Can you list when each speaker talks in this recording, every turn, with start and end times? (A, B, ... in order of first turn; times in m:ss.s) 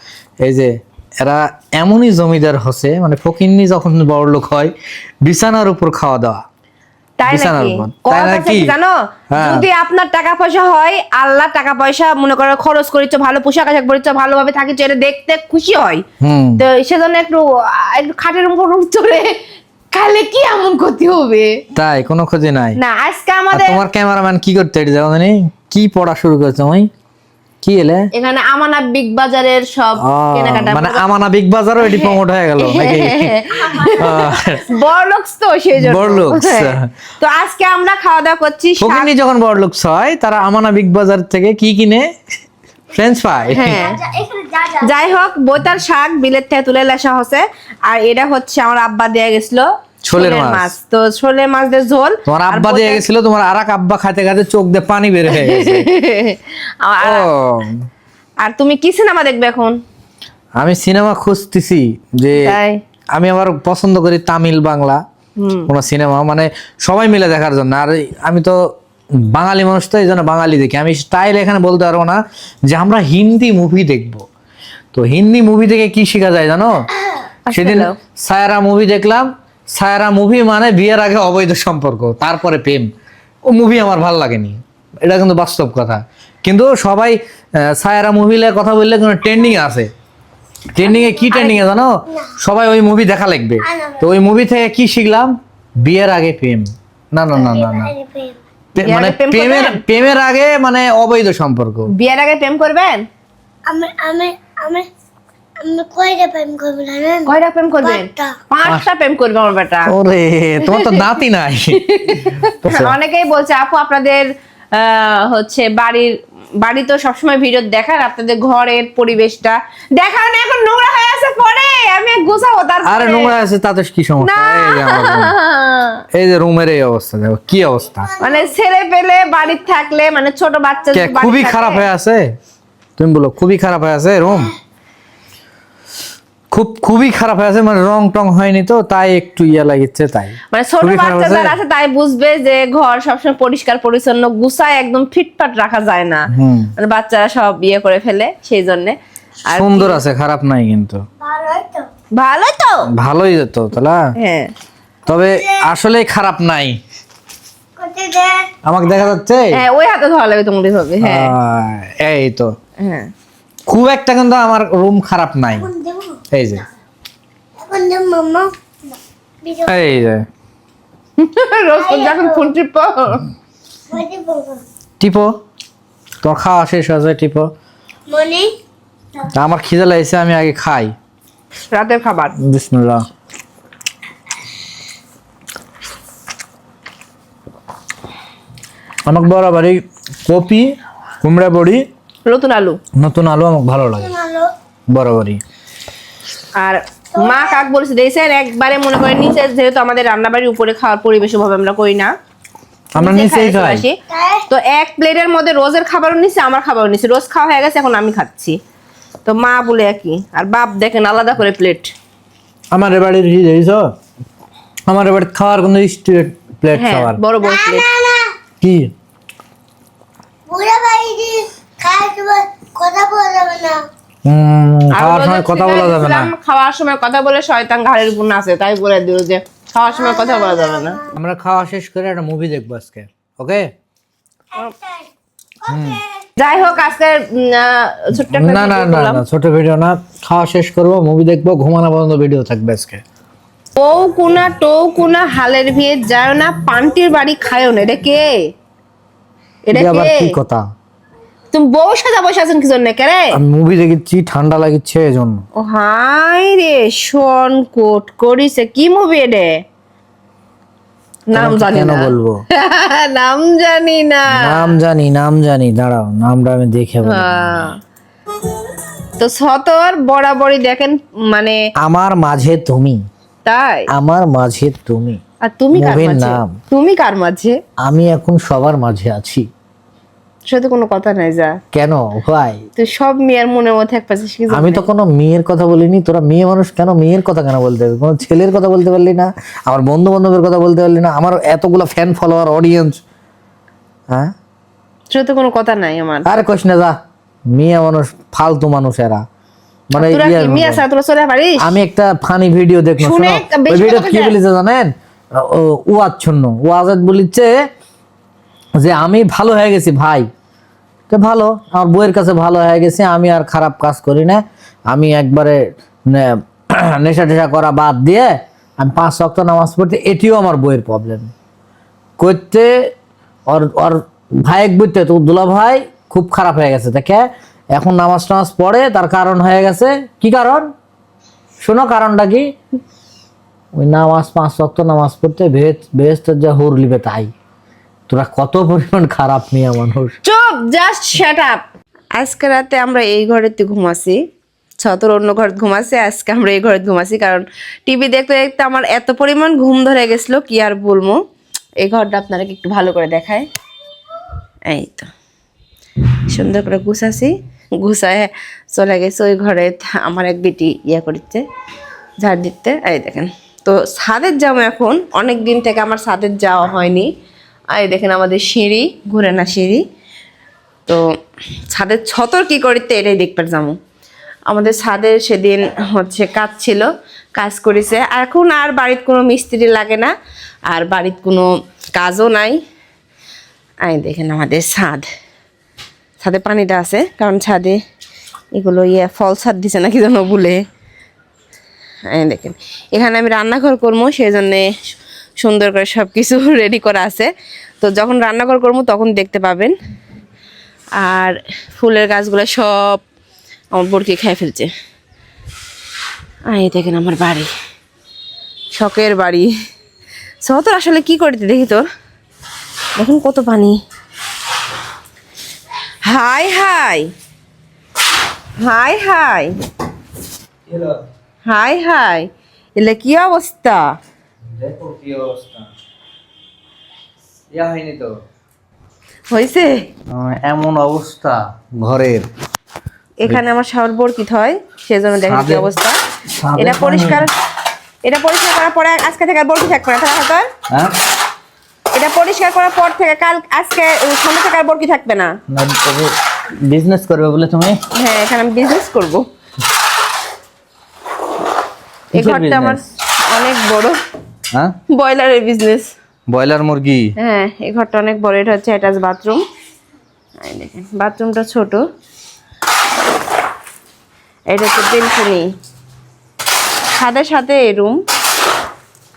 0:00.4-0:04.7 A
0:05.2-0:06.4 A
0:07.2-0:16.0 B
0:07.3-0:08.7 A
0:09.3-0:09.6 A
0:16.2-0:16.6 A
0:16.6-0:19.3 B
0:19.9-0:21.6 B
0:21.8-0:22.8 A
0:22.8-0:23.8 B
0:23.5-0:26.9 A
0:27.6-0:28.1 A
0:28.1-0:31.1 B
0:30.0-0:34.6 A
0:31.8-0:39.1 B
0:35.8-0:36.9 A
0:38.8-0:42.1 A
0:42.9-0:44.0 A
0:43.5-0:45.3 C
0:43.5-0:44.0 B
0:44.8-0:53.0 B
0:50.0-0:50.7 A
0:52.3-0:55.9 A
0:55.3-0:57.3 B
0:57.0-0:57.9 A
0:58.4-0:59.8 B
1:00.6-1:02.6 A
1:02.4-1:02.8 B
1:03.1-1:05.0 A
1:05.4-1:05.7 B
1:05.7-1:08.6 A
1:09.2-1:14.3 A
1:14.9-1:16.9 A
1:17.5-1:18.0 B
1:17.5-1:22.9 A
1:23.5-1:29.9 A
1:30.7-1:37.9 A
1:31.1-1:31.6 B
1:33.7-1:34.0 C
1:37.4-1:38.4 C
1:38.8-1:41.9 A
1:38.8-1:39.8 B
1:41.9-1:43.0 B
1:43.7-1:44.9 C
1:45.6-1:48.4 C
1:47.3-1:49.9 B
1:49.9-1:51.8 A
1:50.6-1:51.2 B
1:51.7-2:03.3 B
1:52.6-1:53.0 A
2:02.8-2:05.4 A
2:04.2-2:06.0 B
2:06.1-2:08.2 A
2:08.2-2:11.9 B
2:10.9-2:12.3 A
2:13.0-2:14.5 A
2:16.5-2:21.6 A
2:20.5-2:29.0 B
2:26.3-2:26.7 A
2:29.5-2:30.0 B
2:29.5-2:31.0 A
2:31.2-2:31.9 C
2:32.2-2:32.8 B
2:32.9-2:34.0 A
2:34.2-2:34.5 B
2:35.1-2:36.8 A
2:37.8-2:38.5 C
2:38.6-2:39.6 A
2:39.5-2:41.3 B
2:41.0-2:42.6 A
2:42.8-2:43.1 B
2:43.7-2:45.7 A
2:45.6-2:46.2 C
2:46.3-2:46.6 A
2:47.6-2:48.5 C
2:49.4-2:49.7 C
2:49.6-2:50.3 A
2:51.2-2:53.2 B
2:51.8-2:52.5 C
2:53.9-2:54.6 C
2:55.0-2:55.4 A
2:56.2-2:57.5 A
2:58.1-2:58.5 C
2:59.3-3:00.9 A
3:01.7-3:02.4 B
3:02.4-3:03.0 A
3:09.1-3:11.8 A
3:12.2-3:12.8 B
3:13.0-3:14.2 A
3:14.0-3:14.5 C
3:14.9-3:15.4 A
3:16.6-3:22.1 B
3:17.2-3:17.6 C
3:23.0-3:23.9 A
3:23.0-3:28.6 B
3:24.1-3:24.4 C
3:29.3-3:31.9 B
3:32.7-3:33.9 A
3:34.9-3:37.2 A
3:36.8-3:37.9 B
3:37.4-3:38.3 C
3:38.6-3:38.9 A
3:40.5-3:43.9 C
3:44.3-3:46.3 A
3:44.9-3:51.0 B
3:50.0-3:51.1 C
3:51.1-3:53.7 A
3:54.5-3:55.1 C
3:55.7-3:56.0 A
3:55.7-3:56.0 C
3:56.4-3:59.2 B
3:58.3-4:03.0 A
4:03.8-4:08.5 B
4:09.7-4:10.4 B
4:09.7-4:10.6 A
4:11.5-4:13.3 B
4:13.3-4:15.4 A
4:15.6-4:19.6 B
4:21.3-4:24.8 B
4:21.3-4:22.4 A
4:24.3-4:27.7 A
4:27.0-4:27.8 B
4:29.2-4:31.6 B
4:31.8-4:33.0 A
4:33.4-4:33.9 B
4:33.9-4:35.2 A
4:35.4-4:37.6 B
4:35.7-4:36.5 A
4:37.8-4:39.5 A
4:40.5-4:41.6 B
4:41.7-4:42.6 A
4:42.8-4:44.8 B
4:44.5-4:53.0 A
4:55.1-4:56.4 B
4:56.2-4:57.0 A
4:57.5-4:59.2 A
4:59.9-5:00.8 A
5:00.0-5:01.7 B
5:01.6-5:07.6 A
5:03.0-5:04.4 B
5:08.8-5:10.3 A
5:11.1-5:21.3 A
5:22.2-5:22.9 A
5:23.5-5:30.7 A
5:31.6-5:32.5 A
5:33.8-5:37.3 A
5:38.1-5:40.2 A
5:40.2-5:41.6 B
5:42.2-5:44.2 B
5:44.8-5:51.2 B
5:51.8-5:53.5 B
5:54.7-5:55.1 B
5:56.3-6:01.4 B
6:02.2-6:07.1 B
6:07.7-6:09.8 B
6:11.7-6:13.8 B
6:14.5-6:20.1 B
6:20.7-6:22.6 B
6:23.8-6:25.1 B
6:26.2-6:27.8 B
6:28.5-6:30.6 B
6:32.1-6:34.7 B
6:35.4-6:39.7 B
6:41.0-6:43.0 B
6:43.7-6:44.7 B
6:46.5-6:47.5 B
6:48.8-6:49.5 B
6:50.4-6:51.9 B
6:53.0-6:53.8 B
6:56.0-6:57.1 B
6:58.6-6:59.5 B
7:00.7-7:01.0 A
7:01.5-7:03.8 B
7:04.5-7:05.7 A
7:07.5-7:08.1 A
7:09.3-7:09.9 B
7:10.1-7:12.3 A
7:13.2-7:16.0 B
7:15.2-7:15.7 A
7:16.4-7:17.2 A
7:16.6-7:17.3 B
7:18.0-7:20.5 B
7:21.9-7:25.3 B
7:25.5-7:26.1 A
7:26.6-7:27.8 A
7:28.0-7:29.2 B
7:32.1-7:34.0 B
7:32.1-7:32.9 A
7:34.9-7:35.9 B
7:36.3-7:37.1 A
7:37.2-7:39.4 B
7:40.4-7:41.8 B
7:44.5-7:45.5 B
7:47.0-7:48.0 B